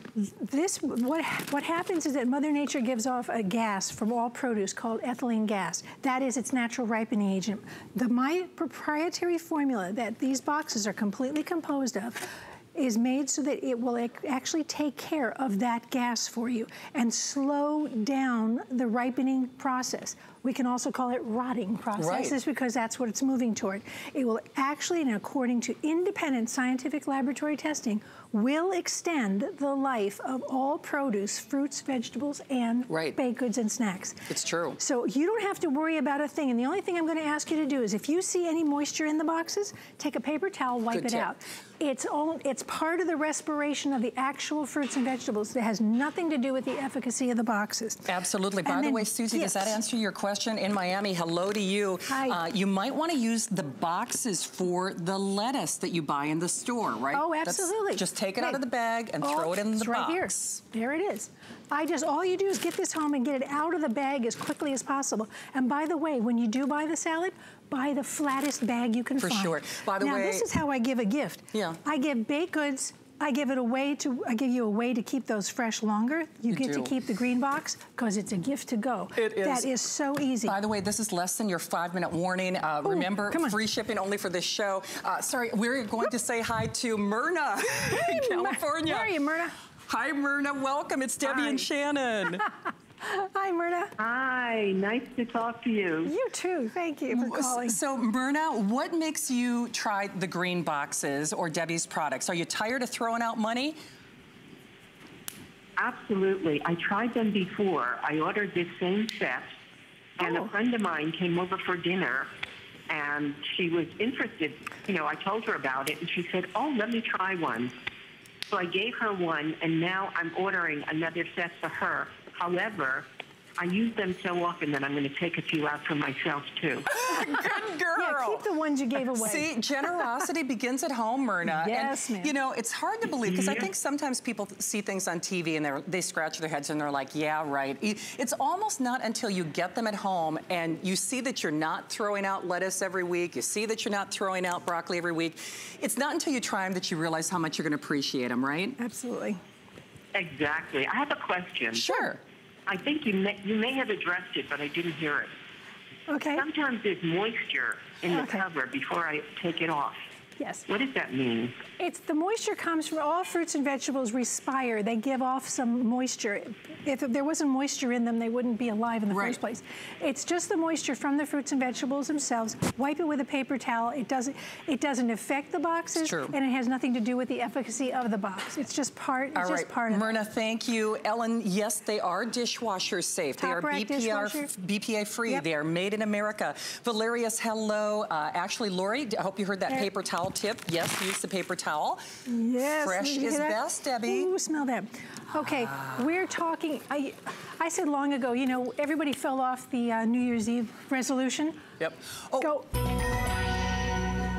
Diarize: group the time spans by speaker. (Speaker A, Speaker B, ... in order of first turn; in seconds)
Speaker A: 0.1-48.1, 48.6-49.8, 52.1-52.4, 57.1-58.6, 59.2-80.5, 82.8-83.6, 87.8-89.5, 91.2-91.7, 93.0-93.9, 96.0-97.8, 110.2-110.5, 127.1-130.3, 131.4-132.3, 148.8-149.4, 156.1-156.4, 158.1-158.4, 160.4-160.7, 161.8-180.2, 183.4-184.5, 192.2-201.6, 202.4-202.7
Speaker B: 21.9-22.4, 32.9-33.2, 34.3-34.8, 40.9-41.3, 48.0-60.6, 69.2-70.5, 71.5-71.8, 76.5-77.0, 79.1-79.7, 80.4-89.1, 89.9-92.5, 97.1-103.8, 126.9-148.8, 151.7-152.2, 169.1-169.4, 175.9-176.3, 179.3-192.0, 192.6-194.3, 201.8-202.5
Speaker C: 94.0-96.1, 105.8-109.5, 110.2-112.3, 112.9-117.7, 118.5-123.1, 123.6-126.9, 150.1-152.0, 152.7-155.3, 156.3-160.0, 160.7-161.6